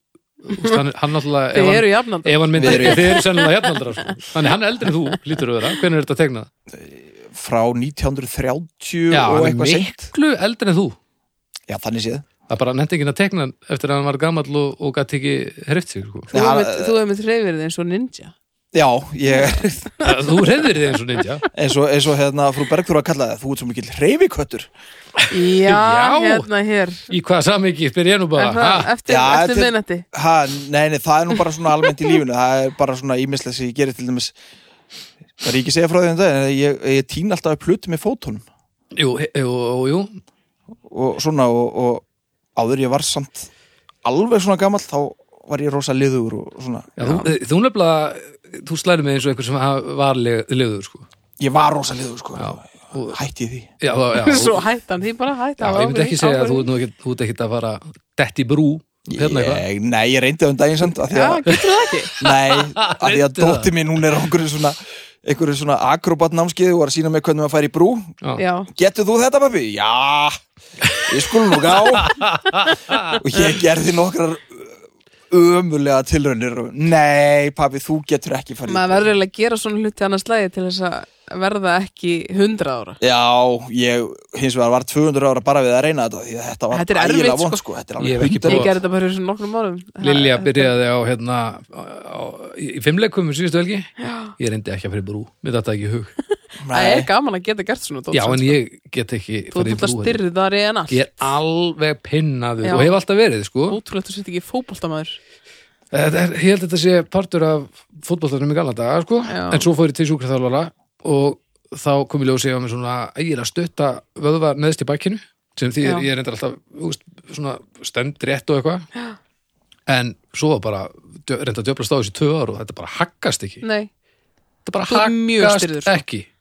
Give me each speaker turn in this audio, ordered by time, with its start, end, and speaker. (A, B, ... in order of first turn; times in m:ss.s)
0:00.4-0:06.5 A
0:00.5-0:00.8 B
0:01.5-0:04.1 B
0:02.5-0:03.1 C
0:06.7-0:10.1 C
0:09.1-0:11.0 A
0:11.7-0:12.3 C
0:12.5-0:16.3 A
0:16.3-0:18.3 B
0:16.3-0:16.9 C
0:18.7-0:19.9 C
0:20.0-0:20.4 B
0:20.0-0:21.5 A
0:21.5-0:24.7 C
0:25.2-0:26.5 A
0:25.3-0:27.1 B
0:27.1-0:28.9 A
0:28.4-0:30.0 B
0:29.0-0:34.3 C
0:35.4-0:38.4 C
0:38.9-0:40.2 A
0:40.9-0:42.0 C
0:42.6-0:43.5 C
0:44.0-0:47.0 C
0:47.0-0:51.0 A
0:47.0-0:47.3 B
0:51.4-0:53.7 C
0:52.4-0:53.2 A
0:53.8-0:54.6 A
0:54.1-0:56.7 B
0:55.6-0:59.6 A
0:59.1-1:01.5 C
1:01.0-1:02.1 B
1:02.2-1:08.2 C
1:02.2-1:03.7 A
1:08.4-1:08.7 B
1:08.7-1:10.4 C
1:11.0-1:12.2 C
1:11.7-1:13.2 A
1:13.1-1:14.8 C
1:15.3-1:19.1 C
1:18.6-1:23.0 B
1:23.0-1:28.7 C
1:26.7-1:27.6 B
1:28.0-1:28.7 A
1:28.4-1:30.7 B
1:30.0-1:36.1 A
1:34.0-1:34.3 B
1:36.6-1:37.1 C
1:36.7-1:38.6 B
1:38.1-1:40.2 A
1:39.5-1:41.3 B
1:40.9-1:43.8 A
1:42.6-1:43.0 B
1:43.7-1:45.2 B
1:45.9-1:58.9 A
1:49.3-1:49.7 B
1:55.8-1:56.1 B
1:59.9-2:03.6 A
2:03.6-2:03.9 B
2:04.6-2:06.2 A
2:04.9-2:06.0 B